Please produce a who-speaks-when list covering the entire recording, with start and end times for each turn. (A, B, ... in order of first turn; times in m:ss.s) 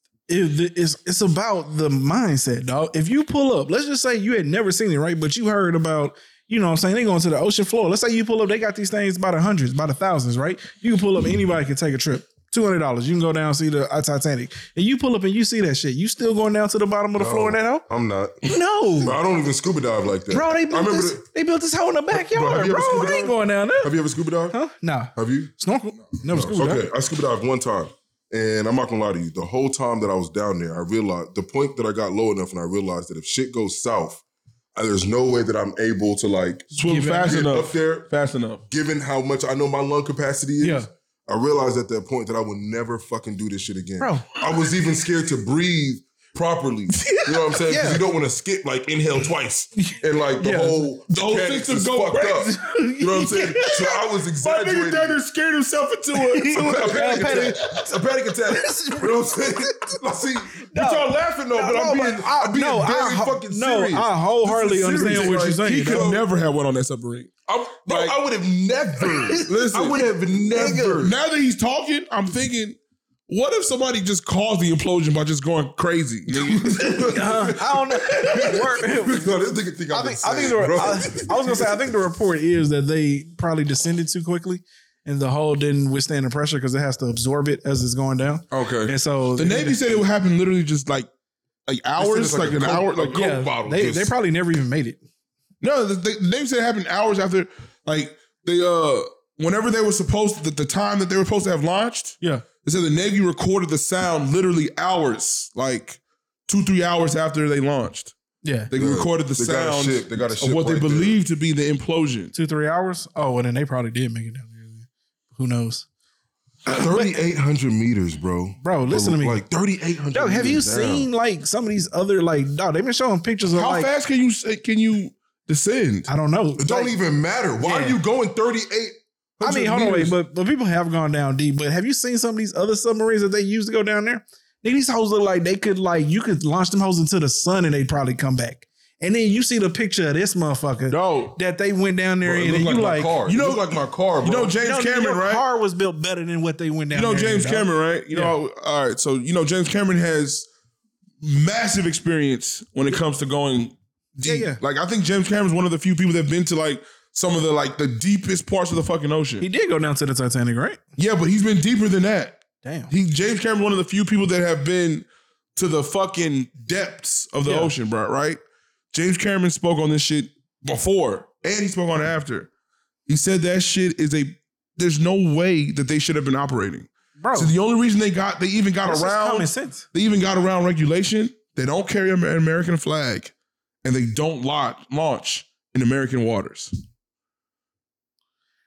0:00.3-0:17.8 A
0:17.2-0:18.4 B
0:18.4-0:19.2 A
0:19.0-0:21.2 B
0:20.3-0:23.9 A
0:22.1-0:24.6 B
0:24.5-0:26.9 A
0:25.2-0:25.5 B
0:26.3-0:34.2 B
0:34.8-0:36.7 B
0:36.7-0:38.6 C
0:36.8-0:37.4 A
0:37.2-0:38.1 B
0:38.7-0:55.2 B
0:40.6-0:40.9 A
0:44.0-0:44.3 A
0:46.9-0:48.0 A
0:49.8-0:50.9 A
0:51.1-0:52.6 C
0:52.4-0:54.0 A
0:54.4-0:57.6 C
0:56.1-0:57.9 A
0:56.5-1:04.1 B
0:58.5-1:00.0 A
1:00.6-1:06.1 A
1:04.4-1:07.3 C
1:04.7-1:06.2 B
1:07.5-1:11.2 B
1:07.9-1:08.1 C
1:09.4-1:10.0 C
1:10.5-1:11.0 A
1:11.0-1:12.8 C
1:13.3-1:17.3 C
1:16.3-1:21.8 B
1:16.8-1:19.3 A
1:19.9-1:30.0 A
1:28.5-1:28.9 B
1:29.4-1:31.1 C
1:31.7-1:33.3 C
1:32.0-1:34.1 B
1:33.1-1:35.0 A
1:35.6-1:48.1 C
1:48.4-1:48.7 A
1:48.7-1:52.3 C
1:48.8-1:51.2 B
1:52.3-1:55.9 A
1:56.7-2:01.1 B
1:56.8-1:57.2 A
1:58.6-1:59.4 A
2:00.1-2:03.9 A
2:03.6-2:06.1 C
2:06.1-2:07.0 A
2:06.6-2:10.1 B
2:07.6-2:08.0 A
2:09.4-2:23.2 A
2:20.9-2:21.4 C
2:22.2-2:24.6 B
2:23.2-2:25.4 C
2:24.6-2:28.3 A
2:26.9-2:30.5 C
2:31.2-2:39.4 C
2:34.2-2:34.6 A
2:39.4-2:40.8 A
2:41.0-2:48.4 C
2:42.6-2:42.9 A
2:47.4-2:47.7 A
2:48.9-2:52.5 C
2:53.1-3:03.3 C
2:57.2-2:57.5 A
2:58.9-2:59.8 A
3:03.8-3:06.7 C